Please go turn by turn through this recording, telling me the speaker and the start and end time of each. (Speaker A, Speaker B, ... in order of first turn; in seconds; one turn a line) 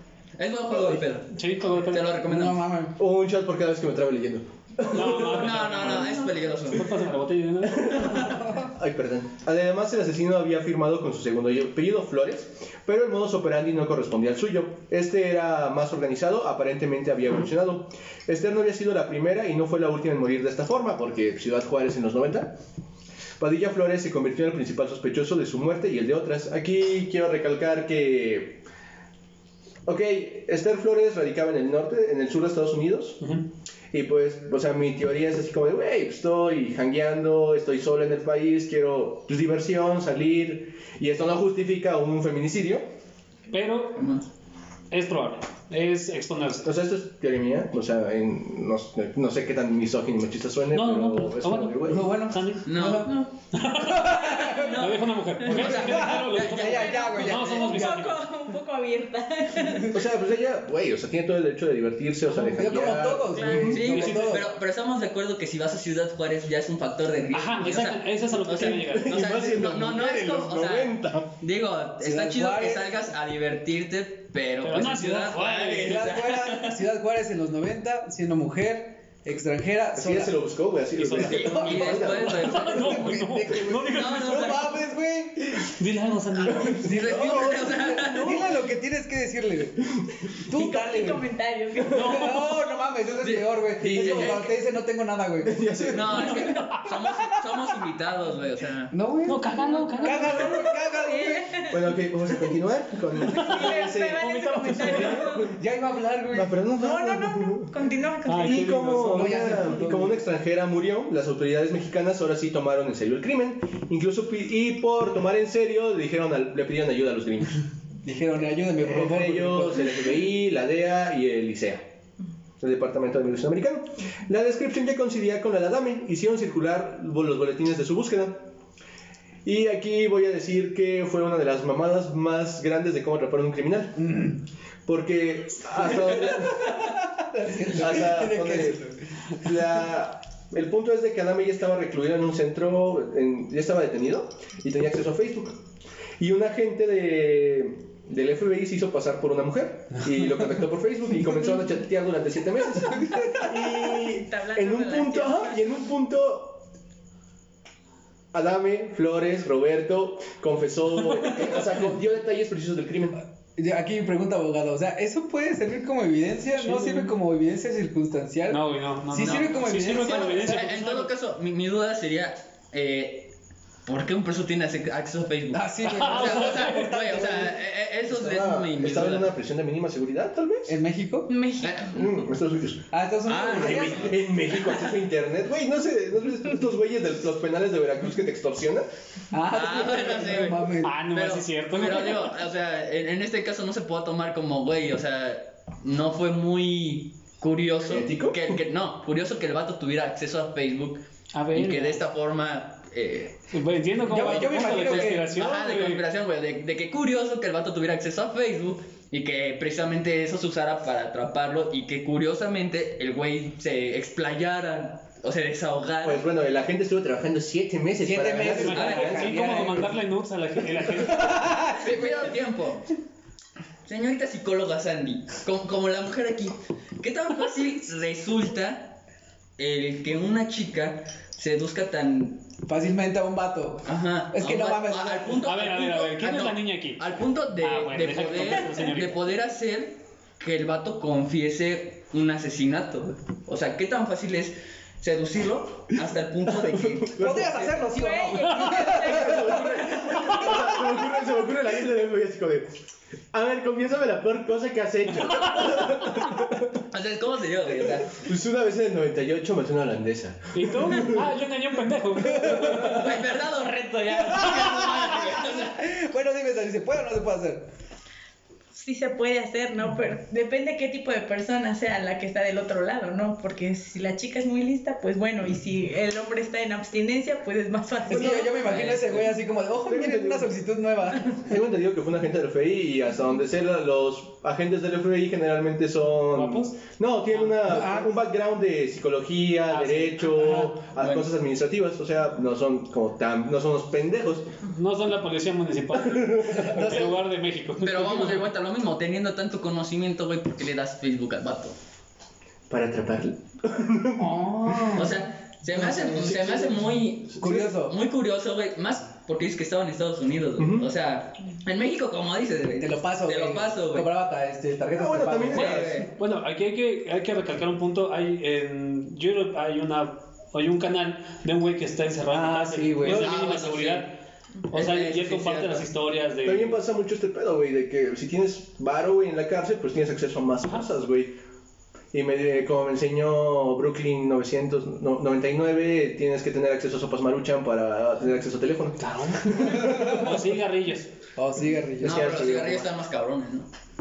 Speaker A: 0.4-2.7
Speaker B: 1.3-2.2
Speaker C: 2.2-3.0
Speaker D: 3.0-5.9
Speaker B: 4.9-6.2
Speaker A: 5.1-6.9
Speaker B: 6.7-8.3
Speaker D: 7.6-22.6
Speaker D: 23.4-28.6
Speaker D: 29.9-33.3
Speaker D: 33.9-42.9
Speaker B: 43.5-44.1
Speaker A: 44.0-44.2
Speaker B: 44.9-46.7
Speaker D: 46.6-52.1
Speaker B: 50.7-58.2
Speaker C: 51.9-54.8
Speaker A: 52.6-53.2
Speaker A: 54.4-57.8
Speaker C: 55.5-57.9
Speaker E: 55.6-55.8
Speaker E: 56.6-60.0
Speaker D: 59.9-63.9
Speaker C: 62.4-64.5
Speaker E: 63.4-63.8
Speaker A: 63.7-76.8
Speaker B: 63.8-64.4
Speaker B: 67.3-69.2
Speaker D: 67.7-68.0
Speaker D: 68.6-71.3
Speaker C: 72.0-72.9
Speaker B: 74.6-76.0
Speaker C: 75.8-80.3
Speaker D: 80.0-82.6
Speaker B: 81.0-84.7
Speaker A: 81.1-83.0
Speaker C: 81.3-85.7
Speaker A: 83.9-84.6
Speaker B: 85.6-86.9
Speaker A: 86.5-88.6
Speaker C: 86.5-89.8
Speaker D: 87.0-87.7
Speaker C: 90.4-91.2
Speaker E: 90.5-92.3
Speaker C: 91.9-96.3
Speaker B: 91.9-92.6
Speaker A: 93.2-94.6
Speaker D: 93.8-94.4
Speaker D: 95.5-96.4
Speaker A: 95.9-98.9
Speaker B: 96.4-96.8
Speaker C: 98.9-101.6
Speaker B: 99.3-100.5
Speaker E: 99.8-101.8
Speaker D: 101.7-105.6
Speaker E: 103.2-105.5
Speaker B: 103.4-105.3
Speaker C: 105.5-106.5
Speaker D: 106.3-107.7
Speaker E: 106.8-108.8
Speaker B: 108.3-109.6
Speaker D: 108.4-117.6
Speaker C: 108.8-110.2
Speaker C: 118.0-120.0
Speaker D: 118.8-121.9
Speaker D: 122.6-128.5
Speaker D: 129.4-134.3
Speaker C: 134.0-134.4
Speaker D: 134.8-136.8
Speaker C: 136.6-139.5
Speaker D: 137.5-138.8
Speaker D: 139.4-145.6
Speaker D: 146.2-156.7
Speaker E: 153.4-155.6
Speaker D: 158.3-163.2
Speaker C: 163.6-170.7
Speaker B: 166.6-167.2
Speaker B: 168.5-171.1
Speaker A: 169.2-173.3
Speaker A: 173.9-179.3
Speaker C: 175.5-177.6
Speaker B: 175.9-177.0
Speaker D: 178.1-180.7
Speaker C: 180.7-181.3
Speaker E: 181.3-182.0
Speaker A: 181.6-182.0
Speaker D: 181.8-182.9
Speaker C: 182.9-184.2
Speaker A: 183.3-184.2
Speaker D: 183.5-188.9
Speaker C: 189.3-190.9
Speaker A: 189.5-203.5
Speaker B: 190.8-192.3
Speaker D: 197.9-198.6
Speaker B: 201.3-202.0
Speaker B: 203.5-206.0
Speaker A: 204.0-216.2
Speaker C: 204.1-205.3
Speaker D: 216.0-219.3
Speaker C: 218.0-220.0
Speaker B: 218.6-221.7
Speaker A: 218.7-219.3
Speaker C: 221.0-222.2
Speaker A: 221.7-222.9
Speaker A: 223.8-229.0
Speaker A: 229.6-232.5
Speaker C: 232.7-235.4
Speaker A: 233.8-247.2
Speaker B: 235.4-237.1
Speaker B: 237.6-239.2
Speaker D: 246.5-247.8
Speaker C: 247.2-249.8
Speaker E: 247.9-250.1
Speaker D: 248.9-252.8
Speaker D: 253.3-256.7
Speaker A: 256.9-258.2
Speaker D: 257.6-261.3
Speaker B: 260.5-263.0
Speaker C: 262.3-263.1
Speaker A: 262.6-265.8
Speaker C: 264.4-267.7
Speaker E: 268.7-278.5
Speaker C: 278.1-281.5
Speaker D: 278.1-278.4
Speaker A: 278.5-279.3
Speaker D: 279.8-280.5
Speaker D: 281.2-294.5
Speaker B: 286.3-286.8
Speaker C: 287.6-288.1
Speaker B: 289.7-290.6
Speaker A: 291.0-291.3
Speaker B: 294.7-298.5
Speaker D: 295.9-297.1
Speaker C: 296.6-297.0
Speaker A: 297.8-301.8
Speaker D: 302.7-304.9
Speaker C: 304.2-305.2
Speaker A: 304.9-314.1
Speaker C: 305.8-306.3
Speaker D: 306.1-306.8
Speaker C: 307.4-308.0
Speaker D: 310.6-310.9
Speaker C: 312.8-315.9
Speaker D: 315.0-316.1
Speaker A: 315.5-316.1
Speaker B: 315.7-324.2
Speaker C: 322.3-323.3
Speaker A: 323.1-324.1
Speaker B: 324.7-326.8
Speaker A: 324.7-325.9
Speaker D: 326.4-331.4
Speaker D: 332.1-340.1
Speaker B: 339.0-341.1
Speaker C: 339.8-340.2
Speaker C: 341.4-342.7
Speaker A: 342.0-343.7
Speaker D: 342.0-342.9